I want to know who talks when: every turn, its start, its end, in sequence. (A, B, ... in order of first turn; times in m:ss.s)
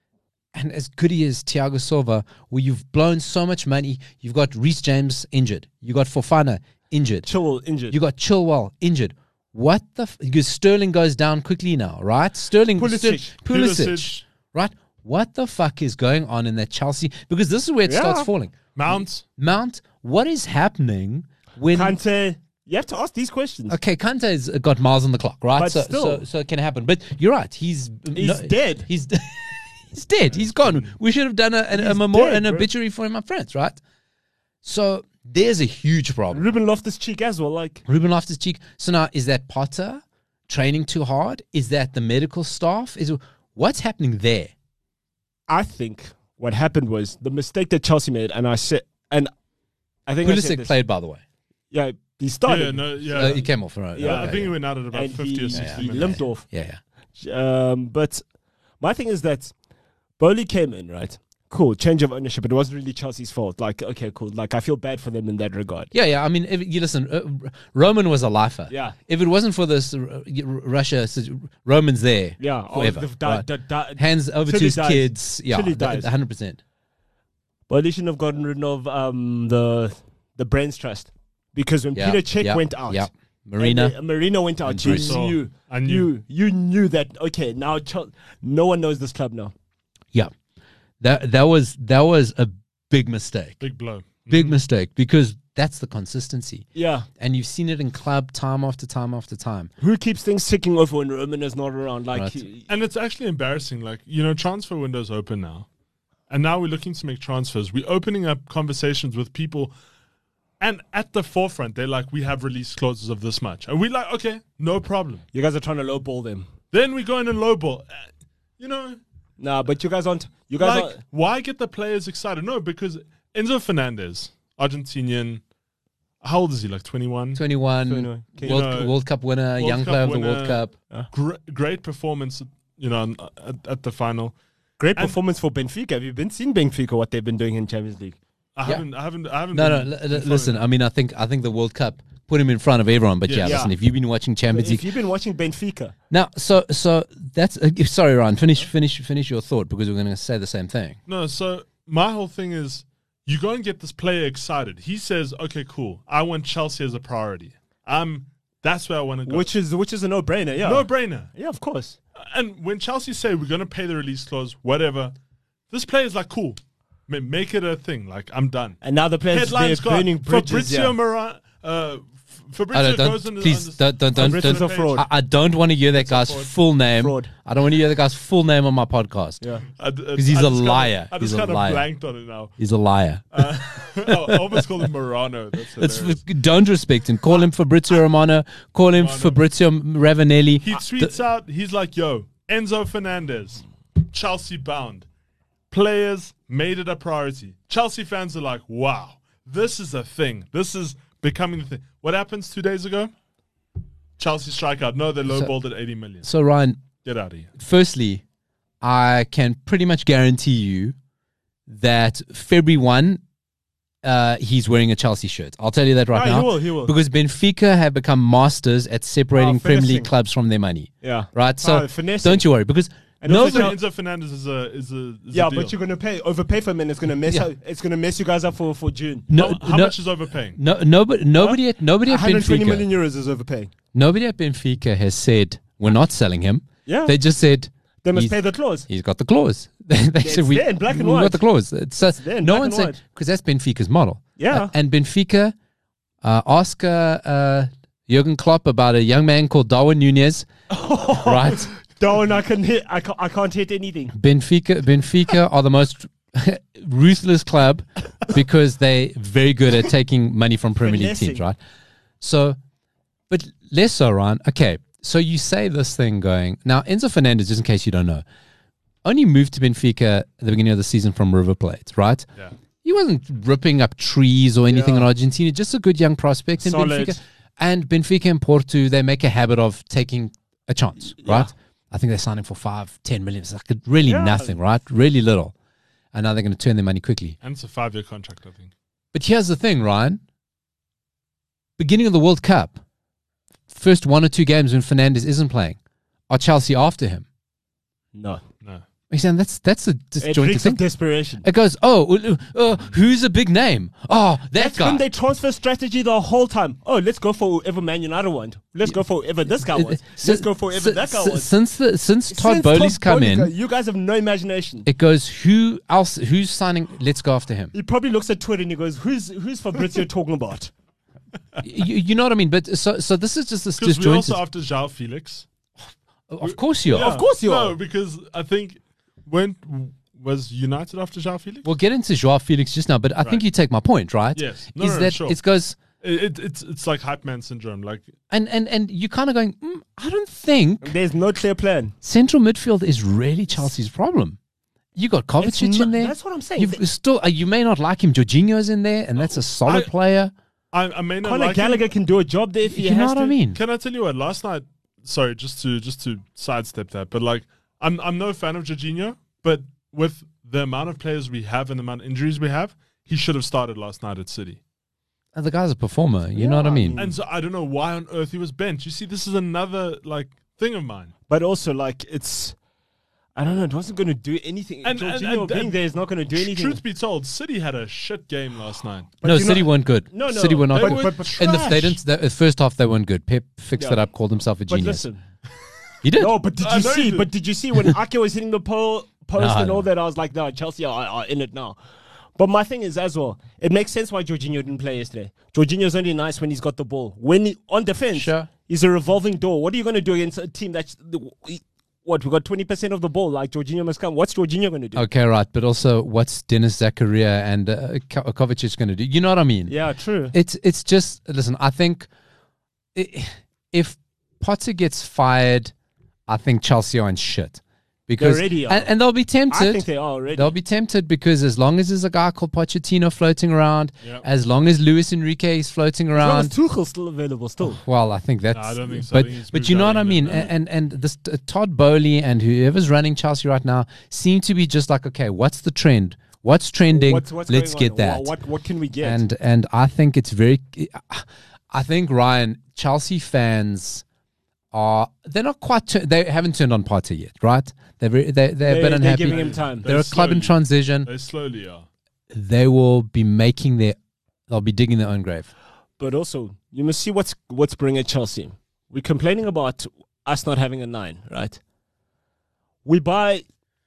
0:00.5-0:07.3 A
0:07.2-0:08.0 B
0:07.9-0:22.0 A
0:12.8-0:13.4 B
0:13.5-0:14.1 C
0:17.8-0:18.3 B
0:18.8-0:19.2 C
0:21.7-0:23.8 B
0:23.7-0:33.8 A
0:25.6-0:26.2 B
0:28.1-0:28.9 B
0:30.4-0:30.9 C
0:31.7-0:32.7 B
0:34.6-0:36.5 A
0:36.3-0:37.8 B
0:37.9-0:44.5 A
0:45.5-0:49.3 B
0:50.1-0:50.7 B
0:50.2-0:51.2 A
0:51.7-0:53.4 B
0:52.5-0:56.2 C
0:53.1-0:54.6 A
0:54.0-0:54.4 B
0:54.9-0:56.5 B
0:55.5-0:56.8 A
0:57.2-0:58.2 B
0:58.8-0:59.5 B
1:00.2-1:05.9 B
1:05.9-1:13.4 A
1:08.7-1:09.0 B
1:12.4-1:16.1 B
1:14.0-1:16.6 A
1:17.7-1:29.5 B
1:22.0-1:23.9 A
1:24.7-1:25.2 A
1:24.9-1:26.1 C
1:31.0-1:33.6 A
1:33.6-1:34.6 C
1:34.3-1:36.7 A
1:36.8-1:37.1 B
1:37.2-1:39.7 A
1:39.8-1:42.7 B
1:42.1-1:42.4 A
1:42.7-1:45.7 C
1:46.3-1:49.7 C
1:50.6-1:55.2 C
1:55.3-1:56.5 B
1:56.7-1:58.1 C
1:58.6-1:59.0 C
1:59.4-2:01.0 B
2:00.6-2:05.4 C
2:06.2-2:07.4 C
2:07.4-2:10.7 A
2:07.9-2:08.7 B
2:08.4-2:09.0 C
2:09.6-2:14.4 C
2:14.8-2:18.2 B
2:18.6-2:20.6 C
2:19.5-2:24.9 A
2:23.3-2:23.6 C
2:23.4-2:23.7 B
2:24.5-2:25.9 B
2:26.1-2:31.0 A
2:31.1-2:39.5 C
2:39.3-2:42.0 B
2:40.6-2:41.3 C
2:42.2-2:45.2 C
2:45.7-2:48.8 C
2:48.8-2:51.0 B
2:49.3-2:55.1 C
2:52.7-2:59.4 A
2:54.2-2:55.0 B
2:55.9-2:56.5 C
2:57.0-2:57.3 B
2:59.8-3:02.6 C
3:00.2-3:01.8 A
3:02.6-3:03.5 A
3:03.3-3:06.2 C
3:04.1-3:04.8 A
3:05.8-3:11.1 A
3:08.9-3:09.4 C
3:10.6-3:15.1 C
3:15.7-3:23.1 C
3:24.2-3:26.3 C
3:26.2-3:26.8 A
3:27.0-3:27.5 C
3:27.6-3:28.2 A
3:28.8-3:31.0 A
3:31.7-3:33.2 A
3:34.0-3:43.8 A
3:36.1-3:37.0 B
3:39.3-3:40.1 B
3:41.0-3:42.5 B
3:43.2-3:43.8 B
3:43.3-3:45.7 C
3:45.3-3:49.3 B
3:49.3-3:50.0 A
3:49.3-3:50.6 C
3:50.6-3:52.9 A
3:51.4-3:53.7 B
3:53.9-3:58.4 A
3:56.9-3:57.2 B
3:58.0-3:58.9 B
3:58.9-4:05.5 A
4:00.2-4:01.4 B
4:02.0-4:03.0 B
4:04.4-4:04.7 B
4:06.2-4:10.5 A
4:10.7-4:14.1 B
4:11.1-4:11.7 A
4:14.1-4:21.6 A
4:20.8-4:21.4 B
4:22.2-4:22.6 A
4:23.3-4:28.2 A
4:29.0-4:32.3 A
4:32.8-4:45.5 A
4:34.7-4:35.1 B
4:36.6-4:37.2 B
4:41.2-4:41.5 B
4:44.1-4:44.6 B
4:46.1-4:47.4 A
4:47.4-4:48.7 C
4:49.1-4:50.2 A
4:51.8-4:52.8 A
4:53.7-4:55.8 A
4:56.3-4:57.3 A
4:58.2-4:58.4 B
4:59.1-5:00.8 A
5:00.2-5:01.4 B
5:01.4-5:05.0 A
5:04.6-5:11.5 B
5:09.6-5:13.5 A
5:12.3-5:14.9 B
5:14.9-5:17.7 A
5:17.7-5:20.7 B
5:21.6-5:24.4 A
5:23.8-5:25.5 C
5:26.3-5:27.1 A
5:26.4-5:31.7 C
5:26.9-5:27.8 B
5:31.6-5:35.8 A
5:34.4-5:35.4 C
5:36.0-5:38.1 C
5:38.3-5:41.0 A
5:40.8-5:42.0 B
5:42.0-5:44.4 A
5:45.0-5:50.3 A
5:45.4-5:46.8 B
5:49.2-5:49.9 C
5:50.7-5:51.9 C
5:51.2-5:53.4 B
5:52.7-5:53.6 A
5:53.5-6:04.6 C
6:05.4-6:07.0 A
6:06.3-6:07.2 B
6:07.0-6:11.1 C
6:11.3-6:12.6 B
6:13.4-6:16.8 B
6:14.8-6:15.8 C
6:16.3-6:19.1 C
6:19.2-6:22.0 B
6:19.2-6:25.0 A
6:20.7-6:21.8 C
6:23.8-6:24.0 B
6:24.7-6:25.2 B
6:26.0-6:26.4 A
6:26.2-6:31.8 B
6:26.6-6:27.3 C
6:29.4-6:29.9 A
6:32.4-6:45.0 B
6:38.1-6:38.5 A
6:45.0-6:49.7 A
6:49.7-6:50.4 B
6:50.3-6:52.1 A
6:53.0-6:55.7 A
6:56.3-7:06.5 A
6:58.2-6:58.9 B
6:59.5-7:00.5 B
7:06.1-7:07.8 B
7:07.6-7:18.3 A
7:08.5-7:10.5 C
7:16.9-7:19.2 B
7:19.0-7:24.0 A
7:24.7-7:31.1 A
7:28.6-7:29.9 B
7:29.2-7:31.9 C
7:32.3-7:34.0 A
7:34.5-7:35.5 A
7:36.0-7:41.6 B
7:42.8-7:43.4 B